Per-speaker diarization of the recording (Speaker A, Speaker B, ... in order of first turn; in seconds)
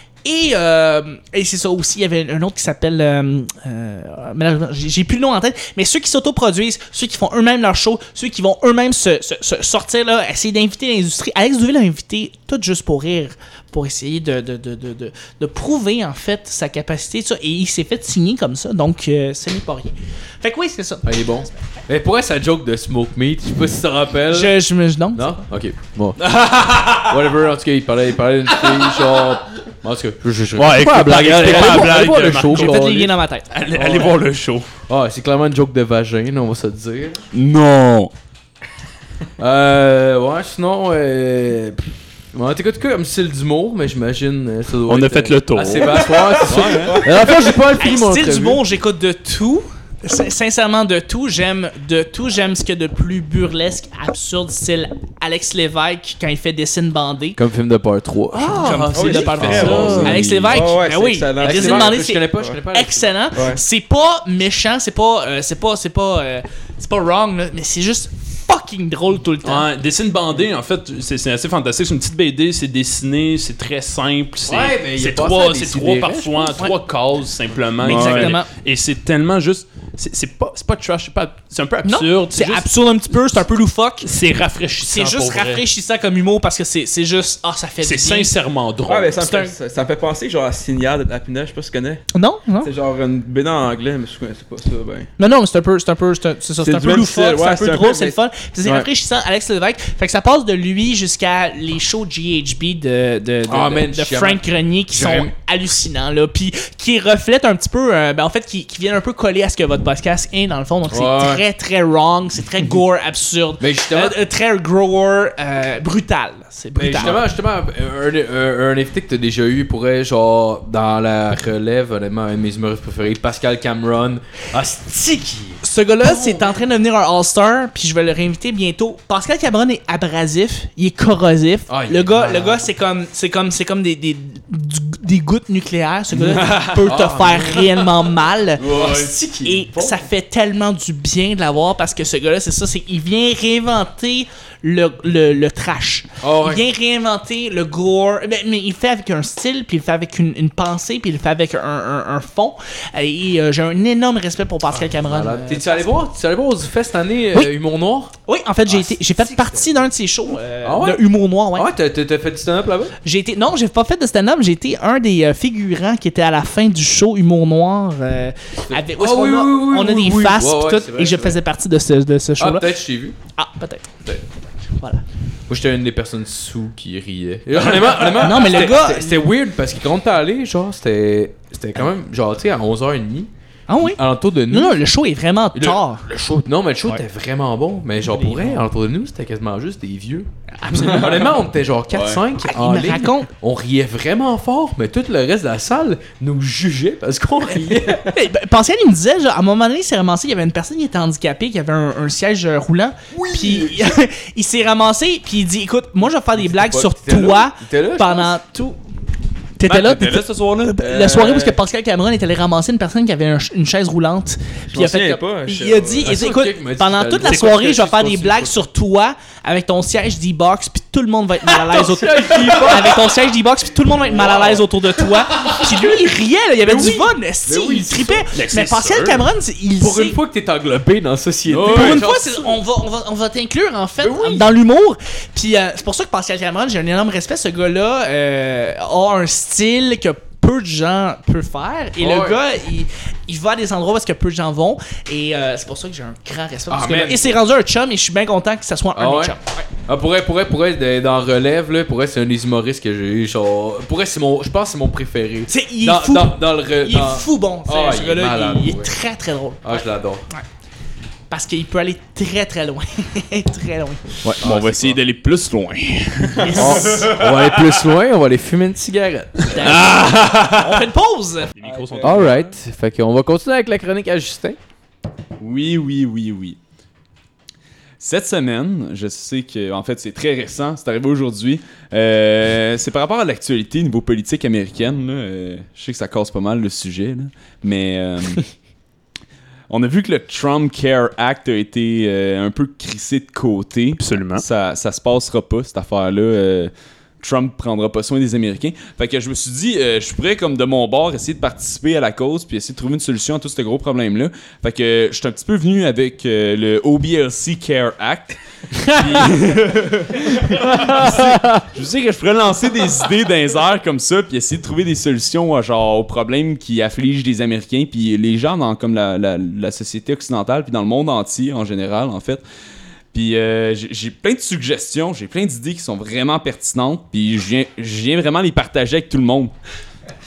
Speaker A: 0.2-21.3, 24.3-25.4, 31.3-34.1, 47.2-57.4, 58.3-69.7, 77.8-78.5, 81.8-84.1, 84.9-88.3, 89.2-89.5, 92.1-92.7, 95.2-117.2, 125.6-155.9, 158.2-161.7, 163.0-172.7, 173.3-174.2, 174.8-175.0, 177.7-179.2, 183.7-186.1, 188.0-188.6, 190.6-191.3, 192.4-193.3, 198.1-208.8, 209.6-230.2, 231.6-249.6, 255.5-260.4, 261.3-264.2, 266.4-267.1, 269.5-271.5
Speaker B: 21.0-24.6, 25.1-26.4, 27.0-33.0, 34.9-37.2, 39.4-48.6, 57.4-59.0, 59.5-60.4, 61.4-63.2, 74.5-76.6, 103.5-105.3, 110.9-111.4, 113.6-114.2, 116.8-126.6, 131.7-132.7, 136.2-138.0, 138.6-139.9, 146.2-146.6, 155.0-158.1, 158.7-159.9, 160.6-162.9, 168.7-171.4, 172.4-173.2, 175.5-184.8, 185.5-198.1, 206.3-208.3, 216.0-218.6, 221.5-223.1, 224.1-224.6, 225.1-226.1, 226.6-228.2, 229.8-232.6, 234.0-234.5, 242.0-242.4, 246.7-247.4, 248.9-249.3, 249.8-258.9, 259.6-260.2, 264.2-265.0, 266.6-269.8, 272.0-274.6, 310.8-311.6
Speaker C: 26.3-27.1, 37.3-38.1, 46.4-47.2, 59.5-60.5, 77.8-78.4, 136.2-137.0, 138.6-139.2, 191.9-192.2, 203.1-203.8, 209.6-211.1, 231.5-232.1, 264.2-267.7, 269.6-270.9, 275.4-276.6, 278.0-288.5, 289.7-322.4, 323.1-329.5
Speaker D: 30.5-34.7, 44.9-46.2, 58.6-60.1, 69.4-82.7, 84.0-85.6, 87.8-89.3, 228.3-229.2, 271.6-272.5, 294.0-294.4
Speaker E: 58.9-62.6, 88.8-92.0, 92.6-95.1, 96.6-98.2, 211.0-211.3, 214.7-216.2, 266.4-266.6, 271.6-272.4